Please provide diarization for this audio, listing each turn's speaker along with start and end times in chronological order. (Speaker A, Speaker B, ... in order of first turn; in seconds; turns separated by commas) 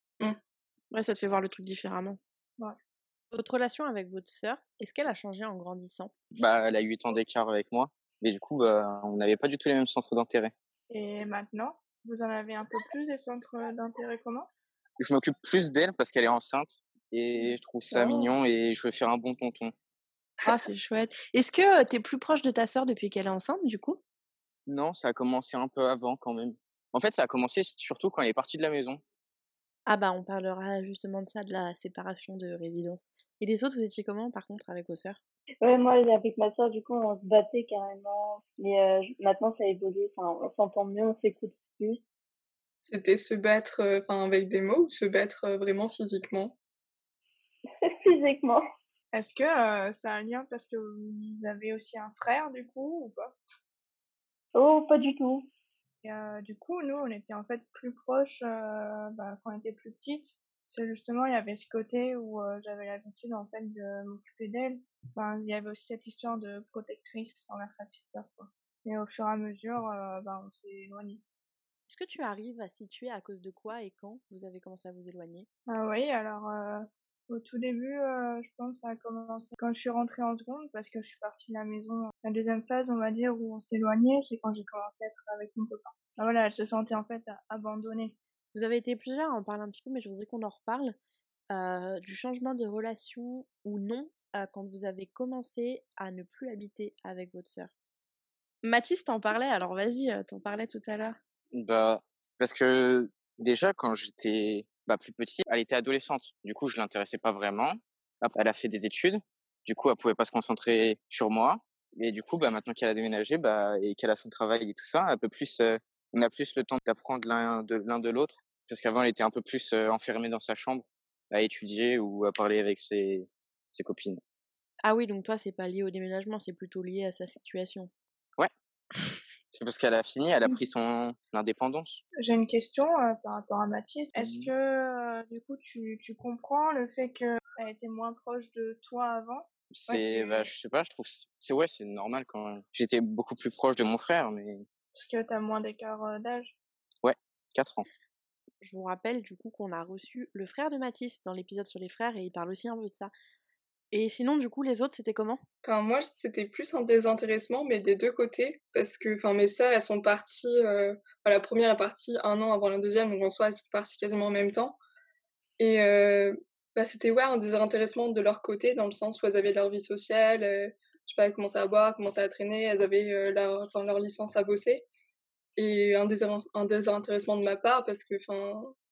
Speaker A: 0.9-2.2, Speaker A: 3.3-6.1, Speaker B: 6.4-10.5, Speaker C: 10.9-14.5, Speaker B: 15.0-19.7, Speaker A: 20.4-24.0, Speaker B: 24.7-29.0, Speaker A: 29.9-35.2, Speaker D: 35.6-42.0, Speaker E: 42.8-46.5, Speaker D: 47.8-48.6, Speaker C: 49.1-53.4, Speaker D: 54.5-55.5, Speaker C: 56.0-71.2, Speaker A: 71.9-75.5, Speaker C: 75.7-88.2, Speaker A: 88.5-91.0, Speaker A: 91.5-97.7, Speaker A: 98.6-101.2, Speaker B: 101.5-124.2, Speaker A: 124.8-127.9, Speaker B: 129.5-132.0, Speaker C: 132.2-140.5, Speaker B: 134.2-134.5, Speaker B: 139.7-144.7, Speaker C: 144.9-146.6, Speaker B: 147.0-147.8, Speaker A: 148.6-153.1, Speaker A: 153.9-155.4, Speaker E: 155.6-164.8, Speaker E: 165.6-174.8, Speaker E: 175.6-178.7